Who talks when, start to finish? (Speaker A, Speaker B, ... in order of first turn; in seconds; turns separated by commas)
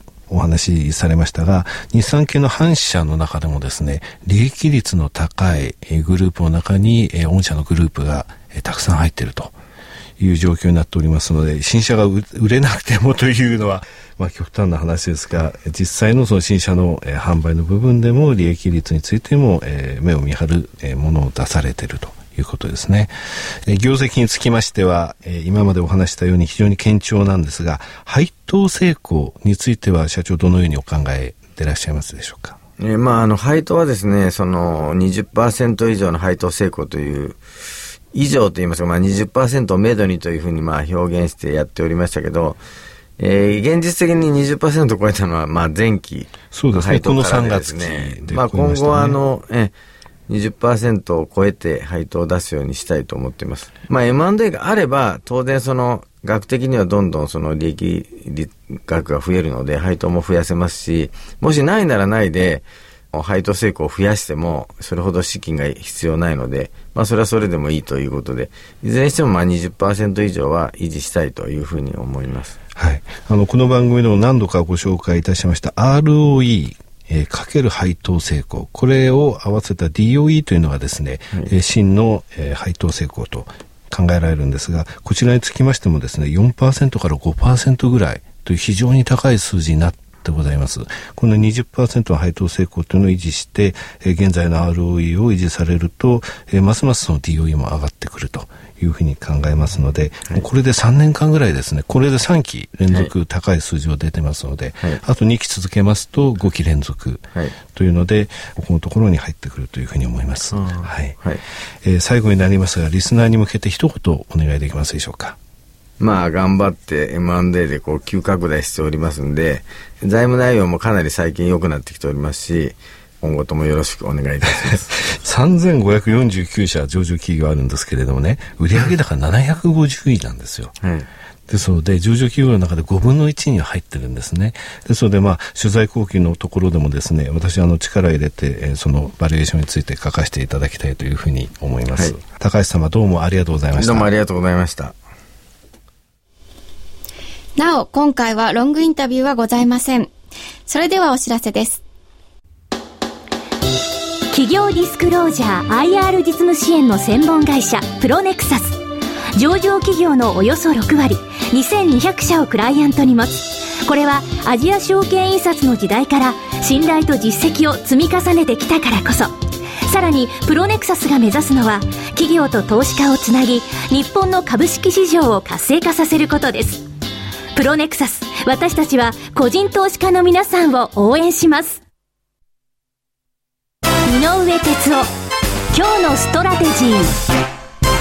Speaker A: 0.3-9.5, Speaker A: 10.2-23.1, Speaker A: 23.6-32.5, Speaker B: 32.8-37.4, Speaker B: 38.1-42.6, Speaker B: 43.2-49.7, Speaker A: 46.5-49.2, Speaker B: 50.3-72.5, Speaker A: 72.8-111.2, Speaker B: 110.5-111.4, Speaker A: 111.8-115.4, Speaker B: 116.0-124.9, Speaker A: 124.6-130.7, Speaker B: 130.8-131.1, Speaker A: 131.5-144.1, Speaker B: 143.7-144.9, Speaker C: 147.6-150.1, Speaker C: 150.7-151.8, Speaker D: 154.3-158.8, Speaker D: 159.3-176.8, Speaker D: 177.5-181.8, Speaker D: 184.1-185.1, Speaker D: 185.7-187.1